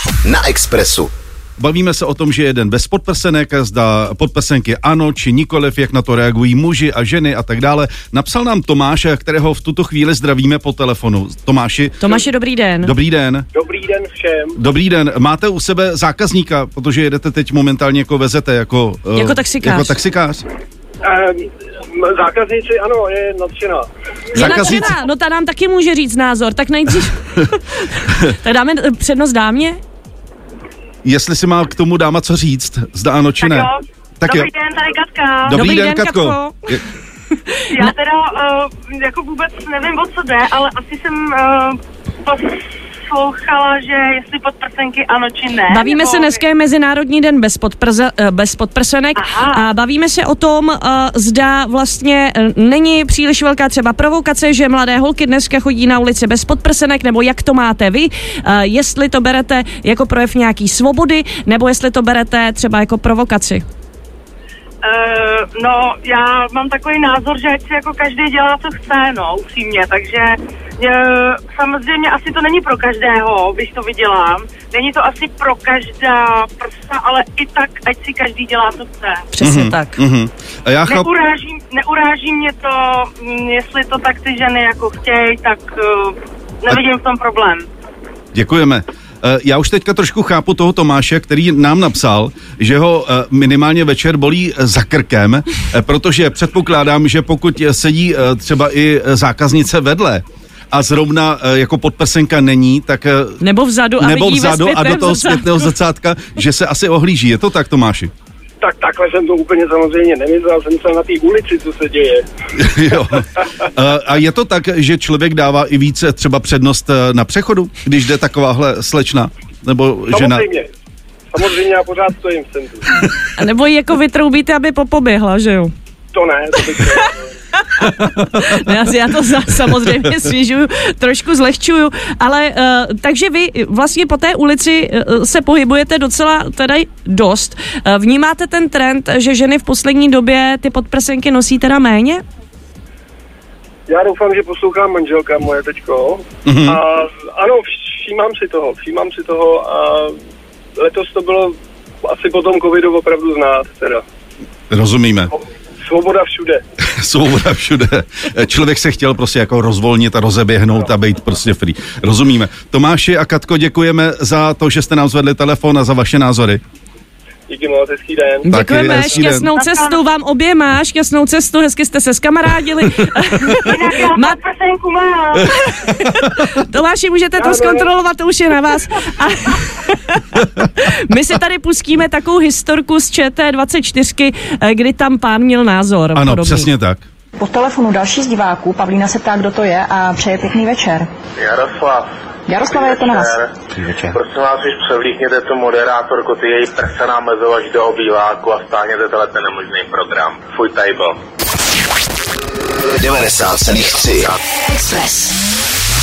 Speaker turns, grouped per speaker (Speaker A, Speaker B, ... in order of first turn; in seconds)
Speaker A: 0.2-1.1, 203.0-204.3
Speaker B: 1.6-12.0, 12.8-13.4, 14.6-20.4, 24.3-24.9, 31.0-33.7, 34.2-34.5, 35.5-36.8, 79.4-81.1, 88.3-103.4, 104.0-108.1, 112.5-120.4, 146.4-146.8, 154.7-155.3, 156.8-166.6, 168.5-169.4, 186.1-187.1
Speaker C: 12.0-12.9, 19.1-19.9, 24.3-29.8, 35.5-36.8, 45.7-63.6, 79.3-80.0, 103.4-105.7, 123.4-125.7, 127.6-142.2, 168.4-174.4, 175.8-186.7
Speaker D: 13.5-14.6, 21.0-23.8, 24.4-24.8, 108.6-112.2, 120.1-120.7, 121.3-123.0, 126.1-127.3, 143.9-150.2, 150.8-154.0, 155.8-156.6, 167.5-168.5, 177.4-177.9
Speaker E: 33.4-35.6, 37.7-46.4, 49.1-49.7, 64.8-79.3, 80.9-87.7, 169.5-170.0, 173.6-175.5
Speaker F: 187.4-191.1, 192.5-194.1
Speaker G: 191.3-192.1, 192.7-193.5, 194.1-201.2